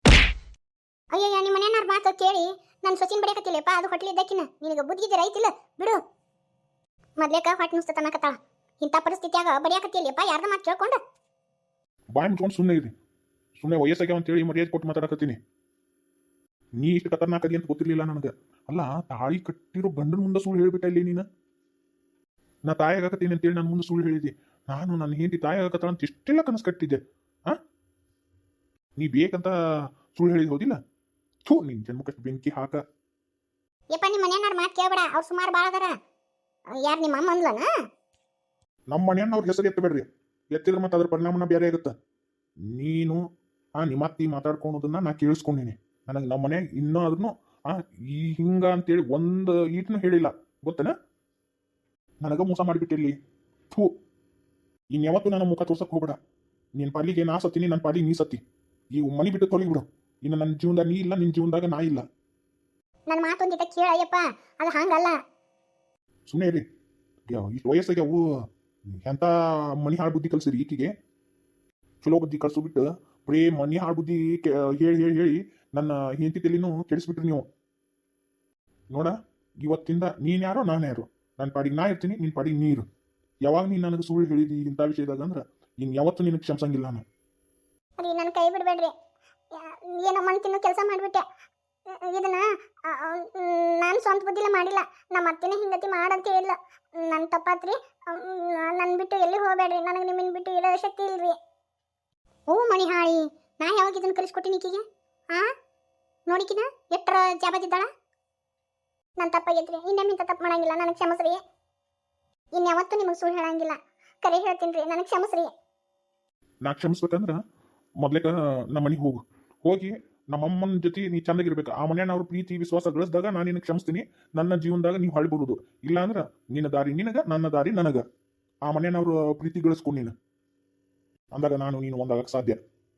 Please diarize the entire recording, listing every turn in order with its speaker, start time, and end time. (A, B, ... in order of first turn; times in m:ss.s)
0:01.1-0:06.0 A
0:07.2-0:11.0 A
0:12.2-0:12.9 B
0:13.6-0:15.4 B
0:16.8-0:21.2 B
0:22.7-0:27.6 B
0:29.0-0:29.5 B
0:30.1-0:30.8 B
0:31.5-0:32.8 B
0:33.9-0:35.9 A
0:36.8-0:37.7 A
0:38.9-0:41.9 B
0:42.7-0:43.2 B
0:43.8-0:50.9 B
0:52.2-0:53.2 B
0:54.9-0:56.2 B
0:56.8-0:58.4 B
0:59.0-1:02.0 B
1:03.1-1:05.2 A
1:06.3-1:06.6 B
1:07.3-1:08.2 B
1:09.0-1:10.9 B
1:12.0-1:17.5 B
1:18.9-1:22.8 B
1:23.4-1:27.0 B
1:28.0-1:28.9 A
1:29.5-1:31.2 A
1:31.9-1:41.4 A
1:42.5-1:45.5 A
1:46.3-1:47.9 A
1:49.2-1:51.4 A
1:52.6-1:55.5 A
1:56.6-1:57.4 B
1:58.0-2:08.0 B
2:08.7-2:10.1 B
2:11.3-2:12.6 B